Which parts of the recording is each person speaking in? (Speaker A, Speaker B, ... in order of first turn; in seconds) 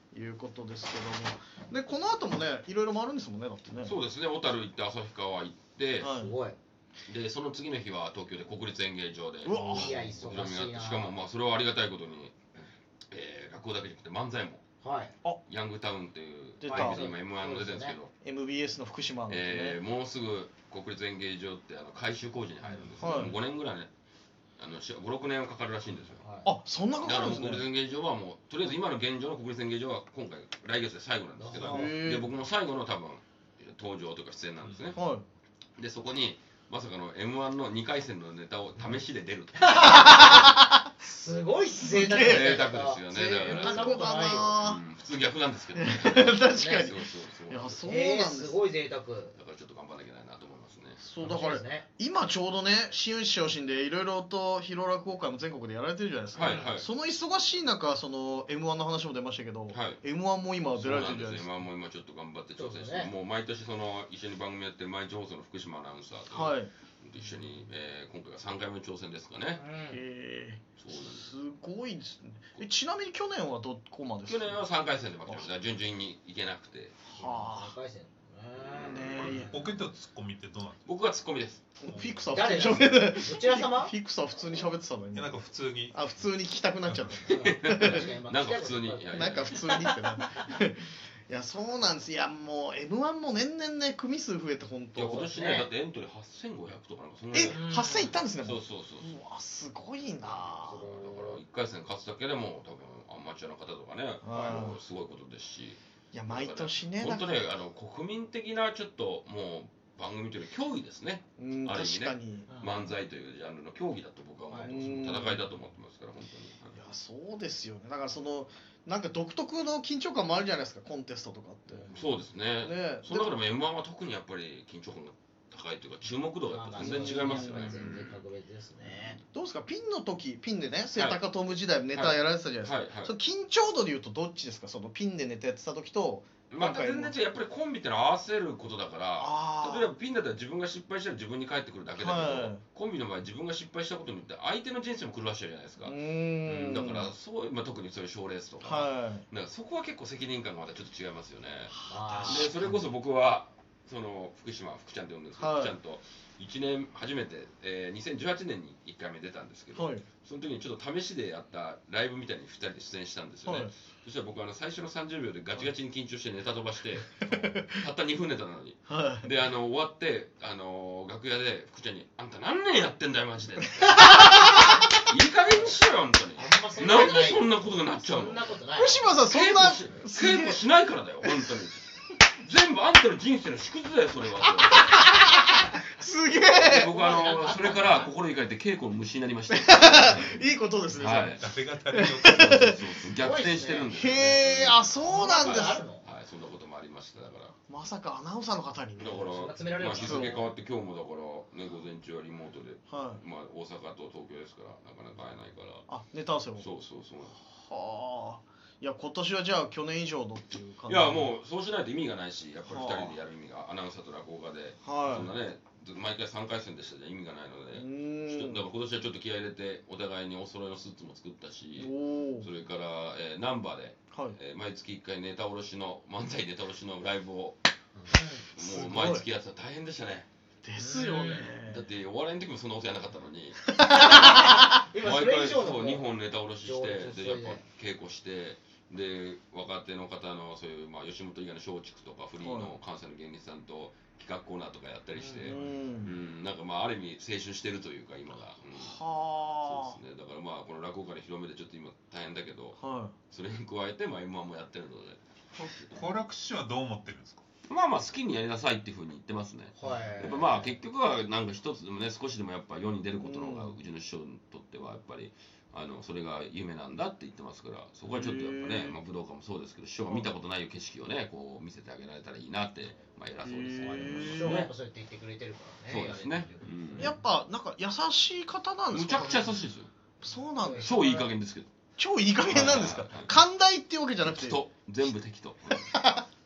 Speaker A: 0.1-4.0, 6.0-6.3, 9.4-10.1, 16.6-17.0, 18.2-19.8, 23.0-23.4, 26.4-27.7, 31.6-32.3, 35.0-35.2, 39.9-40.8, 41.8-44.8, 45.7-48.6, 51.0-61.5, 66.3-66.7, 69.9-74.6, 77.2-77.7, 78.8-79.6, 81.8-85.4, 85.9-88.0, 89.1-95.3, 97.3-100.8, 104.2-104.8, 106.1-107.3, 111.4-112.5, 114.6-115.4, 116.8-121.9, 122.6-123.3, 126.8-127.7, 129.3-137.2, 139.2-139.9, 142.0-142.6, 145.8-147.1, 148.6-149.3, 151.7-152.8, 155.4-155.8, 159.8-160.1, 163.4-163.7, 167.3-167.7, 168.9-169.3, 174.0-174.5, 178.7-180.6, 181.2-181.7, 184.5-186.9, 189.5-192.8, 193.9-195.8, 197.7-199.3, 200.0-200.4, 202.9-203.2, 205.9-206.7, 207.4-211.3, 212.7-213.2, 214.8-215.3, 217.7-218.7, 221.8-222.5, 228.6-229.2, 230.6-231.9, 233.7-234.6, 242.4-242.8, 245.4-246.1, 248.8-250.0, 252.8-253.2, 263.2-263.8, 268.1-269.0, 273.4-274.7, 277.0-279.5, 280.2-281.3, 282.0-284.6, 285.9-286.2
Speaker B: 3.8-6.1, 7.1-12.4, 13.1-14.6, 15.5-18.1, 19.3-23.9, 24.6-26.2, 27.0-35.0, 35.8-40.5, 42.2-47.8, 49.4-51.0, 56.3-56.9, 59.7-60.0, 60.7-69.6, 70.8-71.3, 74.3-77.0, 78.6-79.3, 80.8-81.6, 87.3-89.7, 95.0-99.1, 100.7-116.8, 121.9-128.2, 131.0-131.2, 131.9-133.1, 136.5-178.5, 179.2-181.8, 182.4-184.9, 186.6-190.4, 190.9-191.5, 192.2-197.6, 199.0-205.9, 206.6-207.4, 210.9-227.6, 228.5-230.3, 231.6-252.8, 253.3-256.1, 257.7-274.7, 275.9-277.1, 278.9-279.9, 280.8-281.7, 282.4-283.4, 284.2-285.9
Speaker C: 6.2-6.6, 9.7-11.1, 14.8-15.1, 16.6-18.0, 26.2-26.5, 31.4-32.0, 39.6-44.6, 46.5-46.9, 47.8-49.4, 51.2-51.9, 56.4-56.7, 62.6-63.1, 69.6-70.0, 77.1-79.7, 82.3-83.9, 87.3-90.2, 95.1-95.7, 97.4-98.2, 100.3-101.4, 104.3-104.6, 112.5-112.8, 114.5-114.8, 126.5-129.2, 151.9-152.6, 176.4-179.1, 186.8-188.1, 193.2-193.9, 195.0-196.1, 199.3-200.5, 228.1-228.5, 230.8-231.5, 233.8-237.6, 245.2-245.6, 259.8-260.7, 273.8-277.2, 279.2-279.6, 280.6-281.2
Speaker D: 79.2-80.8, 81.9-82.2, 85.1-86.1, 191.4-192.8, 255.6-257.4